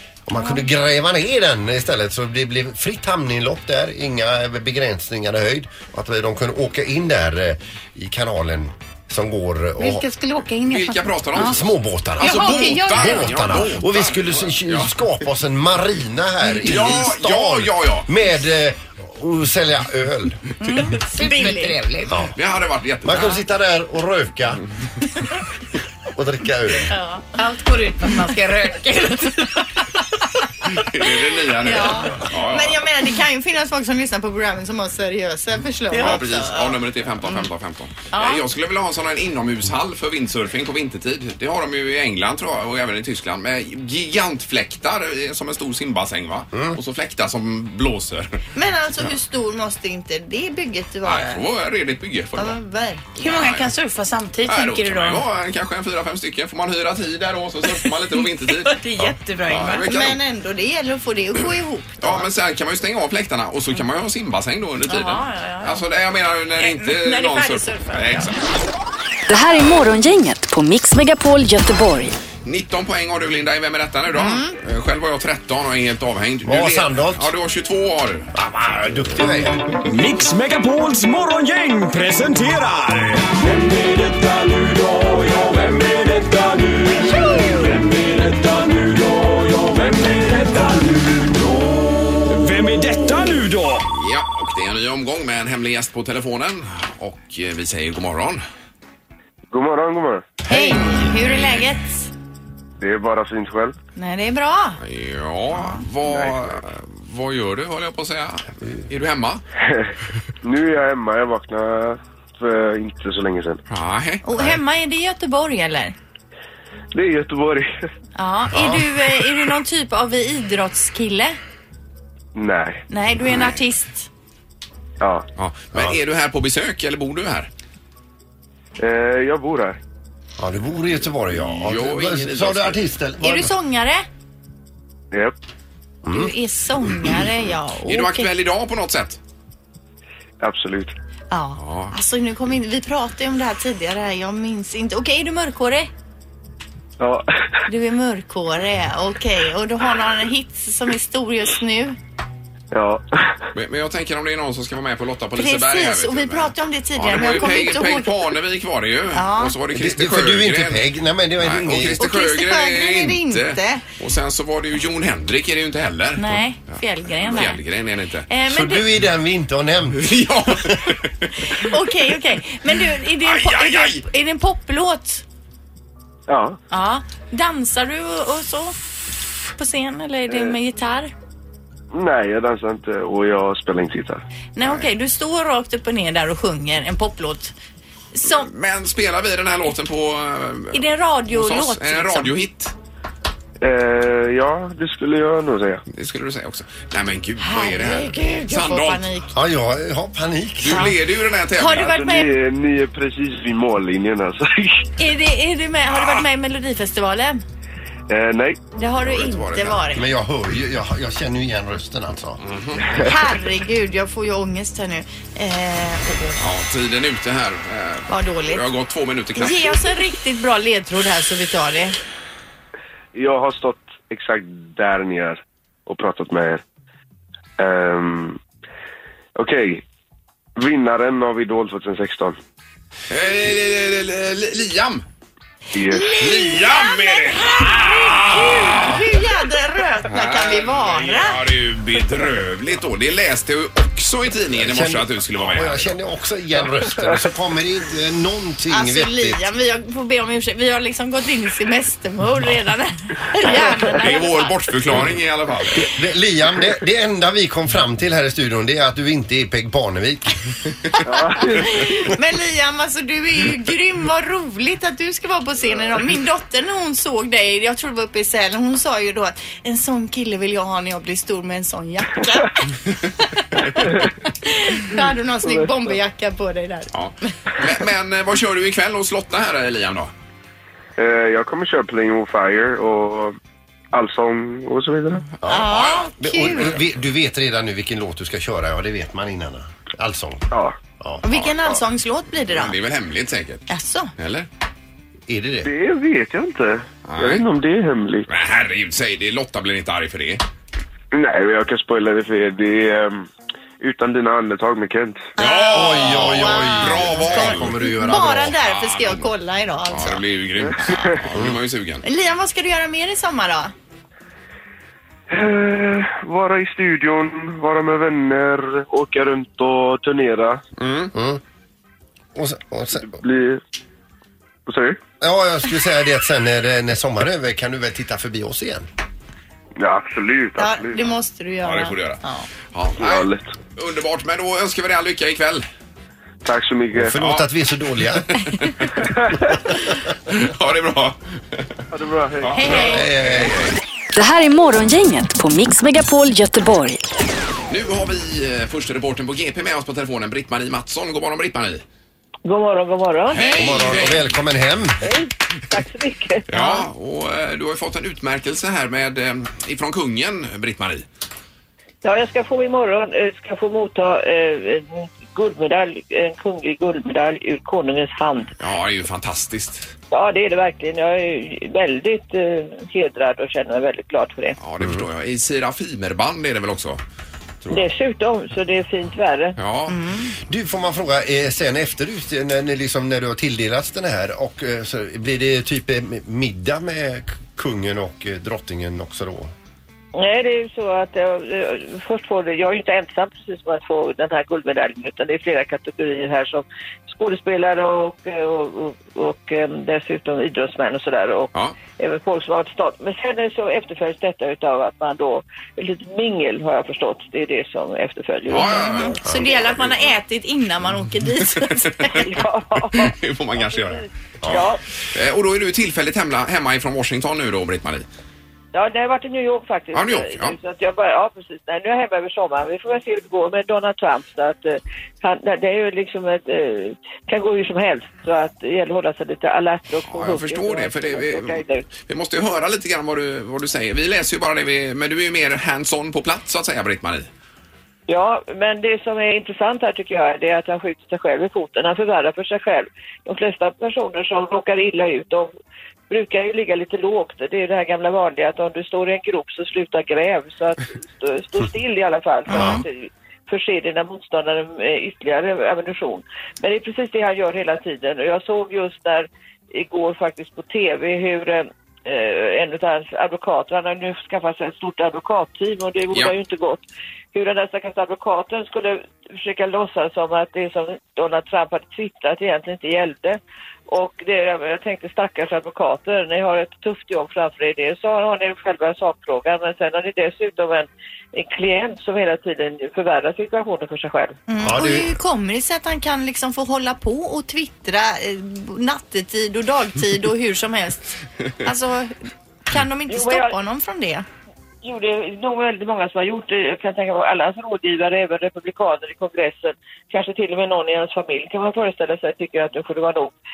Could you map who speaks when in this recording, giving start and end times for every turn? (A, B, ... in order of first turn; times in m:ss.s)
0:00.3-0:10.1 A
0:09.8-0:11.6 B
0:10.7-0:15.0 C
0:11.4-0:20.4 A
0:12.2-0:13.3 B
0:16.6-0:18.1 C
0:20.6-0:21.8 D
0:20.7-0:22.2 B
0:22.1-0:22.3 A
0:22.4-0:23.4 C
0:23.0-0:24.6 A
0:26.1-0:26.9 A
0:26.9-0:27.4 D
0:27.4-0:29.5 B
0:30.7-0:32.8 C
0:31.6-0:37.5 D
0:35.9-0:48.4 C
0:38.1-0:38.4 D
0:46.5-0:46.8 A
0:48.6-0:51.4 D
0:51.0-0:52.6 C
0:52.4-0:53.1 D
0:53.2-0:55.2 B
0:53.2-0:53.7 C
0:54.4-1:00.2 C
0:58.7-0:59.9 B
0:59.8-1:02.3 D
1:02.0-1:08.4 C
1:04.9-1:05.8 D
1:06.6-1:08.3 D
1:09.3-1:12.1 E
1:12.4-1:18.3 C
1:14.1-1:14.5 D
1:16.4-1:17.3 A
1:18.3-1:19.6 A
1:19.9-1:33.8 F
1:33.9-1:38.4 C
1:39.5-1:40.4 G
1:40.4-1:42.1 D
1:42.8-1:43.8 G
1:44.0-1:44.8 D
1:44.8-1:49.4 C
1:46.0-1:46.5 G
1:49.6-1:49.9 G
1:50.4-1:53.6 G
1:53.7-1:54.2 C
1:54.2-1:56.0 D
1:56.9-1:57.7 G
1:58.2-2:01.4 D
1:58.5-1:58.8 A
2:02.4-2:02.8 G
2:02.9-2:04.1 D
2:05.4-2:07.5 C
2:08.8-2:09.8 G
2:10.4-2:13.5 A
2:11.3-2:12.8 C
2:13.2-2:14.0 D
2:16.0-2:18.3 D
2:16.1-2:16.3 A
2:17.9-2:19.2 C
2:20.4-2:21.0 G
2:21.3-2:25.9 D
2:21.6-2:21.9 C
2:27.0-2:27.3 G
2:27.7-2:32.0 D
2:32.7-2:33.5 G
2:33.6-2:40.8 C
2:35.4-2:38.3 D
2:39.1-2:39.6 D
2:39.7-2:42.0 A
2:41.4-2:48.3 C
2:41.9-2:43.8 D
2:46.2-2:47.6 D
2:48.3-2:48.9 D
2:48.5-2:50.8 A
2:50.0-2:51.7 C
2:51.5-2:55.2 D
2:53.2-2:54.0 C
2:56.3-2:56.6 G
2:56.7-2:58.8 D
2:59.5-3:01.1 D
3:00.3-3:00.6 G
3:01.9-3:04.2 G
3:04.6-3:07.5 D
3:04.6-3:04.9 C
3:08.2-3:08.5 D
3:08.2-3:12.7 C
3:10.7-3:12.3 D
3:13.6-3:15.8 G
3:15.9-3:19.0 C
3:17.4-3:19.4 D
3:19.3-3:21.0 A
3:20.6-3:22.0 C
3:20.6-3:20.9 D
3:21.6-3:22.4 D
3:21.8-3:24.9 G
3:25.0-3:27.4 D
3:25.9-3:26.3 C
3:28.1-3:28.6 G
3:28.8-3:30.1 D
3:29.0-3:29.8 C
3:29.9-3:32.4 A
3:32.4-3:32.9 C
3:33.0-3:36.4 D
3:36.4-3:39.8 C
3:38.1-3:38.6 D
3:39.4-3:42.0 D
3:43.2-3:46.6 G
3:47.6-3:48.4 G
3:49.4-3:49.8 G
3:50.6-3:52.4 G
3:53.1-3:55.0 C
3:55.7-3:56.2 G
3:55.9-4:01.4 D
3:56.2-3:59.2 C
4:00.0-4:06.0 C
4:04.6-4:09.5 A
4:08.7-4:14.6 D
4:13.4-4:15.9 C
4:15.8-4:20.4 A
4:21.0-4:21.7 G
4:21.6-4:37.3 D
4:36.9-4:40.1 C
4:41.0-4:43.4 G
4:43.9-4:45.2 G
4:45.4-4:46.8 C
4:45.4-4:45.7 A
4:45.5-4:46.8 D
4:46.2-4:50.5 A
4:50.5-4:50.8 G
4:51.0-4:51.3 A
4:51.2-4:52.8 D
4:52.5-4:53.6 C
4:53.7-4:54.1 D
4:54.2-4:54.5 C
4:55.3-4:55.7 A
4:55.6-4:58.3 G
4:57.1-4:57.4 C
4:58.3-5:00.4 C
5:01.1-5:05.3 G
5:05.4-5:10.3 D
5:05.4-5:09.3 C
5:05.7-5:08.6 A
5:09.9-5:12.0 C
5:10.6-5:11.1 G
5:10.8-5:11.1 D
5:12.0-5:13.7 D
5:15.3-5:20.6 G
5:20.8-5:21.1 C
5:21.1-5:21.4 A
5:22.4-5:23.2 A
5:23.0-5:23.6 G
5:24.7-5:25.0 G
5:25.2-5:28.9 A
5:29.8-5:31.0 G
5:30.6-5:32.5 D
5:31.6-5:35.6 C
5:33.0-5:33.5 G
5:36.4-5:37.1 G
5:37.0-5:38.3 A
5:37.2-5:37.5 C
5:38.3-5:39.1 C
5:39.0-5:39.6 G
5:39.8-5:41.8 C
5:41.9-5:43.0 G
5:42.4-5:43.8 C
5:42.6-5:43.1 D
5:42.8-5:43.8 A
5:44.2-5:47.0 E
5:47.7-5:51.8 C
5:52.4-5:54.0 H
5:53.3-5:54.3 C
5:53.5-5:55.0 A
5:55.0-5:56.9 H
5:56.5-6:01.0 C
6:02.0-6:08.5 H
6:08.6-6:09.9 C
6:10.1-6:14.6 H
6:14.6-6:17.0 C
6:14.8-6:15.1 A
6:17.7-6:19.6 H
6:19.6-6:20.0 C
6:19.9-6:20.3 D
6:20.5-6:29.5 A
6:30.2-6:49.1 H
6:48.5-6:49.9 C
6:48.6-6:52.3 D
6:51.4-6:52.4 C
6:52.1-6:54.8 H
6:52.9-6:58.1 C
6:58.7-7:11.9 H
6:59.9-7:00.6 C
7:10.1-7:17.3 C
7:18.1-7:25.5 H
7:26.1-8:04.4 H
7:32.5-7:32.9 D
7:32.5-7:32.8 A
7:46.1-7:46.4 C
8:04.5-8:12.2 D
8:04.6-8:05.2 A
8:12.7-8:14.3 D
8:13.1-8:13.6 H
8:14.8-8:23.4 H